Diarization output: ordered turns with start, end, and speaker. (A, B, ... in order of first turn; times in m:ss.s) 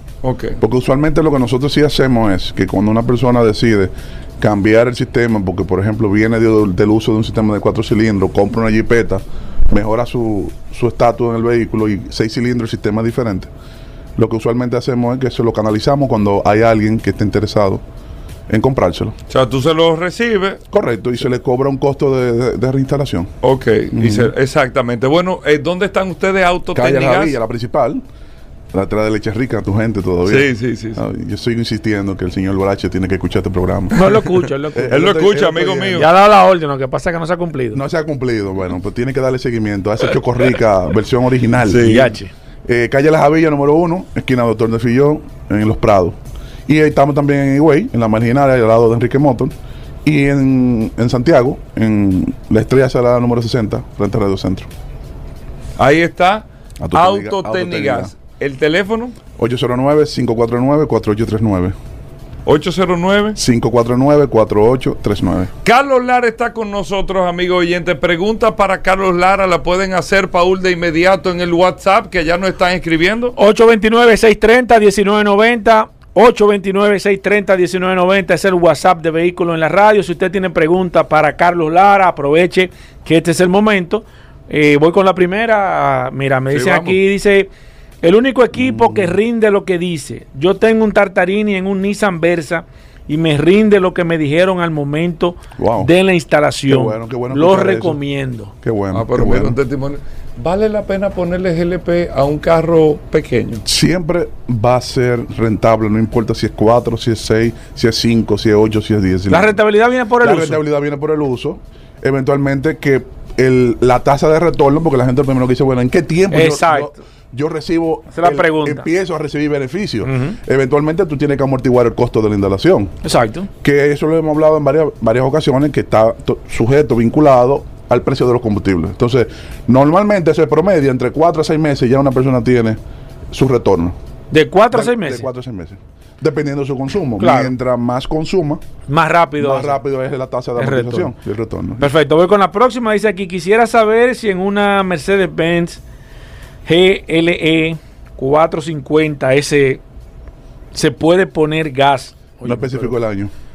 0:00.2-0:00.6 A
0:00.6-0:13.5 B
0:14.2-0:17.8 B
0:18.5-0:19.1 B
0:19.3-0:20.6 A
0:20.7-0:23.3 B
0:23.4-0:27.3 A
0:23.9-0:24.3 B
0:26.7-0:28.0 B
0:28.7-0:34.2 B
0:30.2-0:31.0 A
0:33.9-0:35.1 C
0:34.7-0:36.1 B
0:34.9-0:36.0 A
0:35.9-0:37.8 C
0:37.7-0:42.0 B
0:41.7-0:42.1 A
0:41.7-0:42.3 C
0:42.7-0:46.2 B
0:46.7-0:49.5 B
0:50.0-0:54.7 B
0:55.8-0:59.2 A
0:56.8-0:58.1 B
0:59.4-1:01.7 B
1:02.5-1:03.4 A
1:03.4-1:05.5 B
1:05.6-1:13.3 A
1:13.4-1:27.5 C
1:26.5-1:27.0 A
1:28.0-1:38.5 C
1:28.5-1:29.2 B
1:35.6-1:35.9 B
1:36.7-1:38.0 B
1:38.6-1:39.6 B
1:38.9-1:43.6 A
1:43.6-1:49.6 B
1:49.3-1:50.6 C
1:50.2-2:02.9 B
1:56.3-1:56.9 C
1:58.1-1:58.8 C
2:00.0-2:00.4 C
2:03.0-2:03.5 C
2:03.6-2:12.8 B
2:13.3-2:14.0 B
2:14.3-2:15.2 C
2:14.7-2:18.6 B
2:17.2-2:17.5 C
2:18.9-2:19.8 C
2:19.4-2:21.9 B
2:20.6-2:21.1 C
2:21.8-2:25.8 C
2:26.6-2:29.8 C
2:30.7-2:32.9 C
2:32.4-2:33.3 B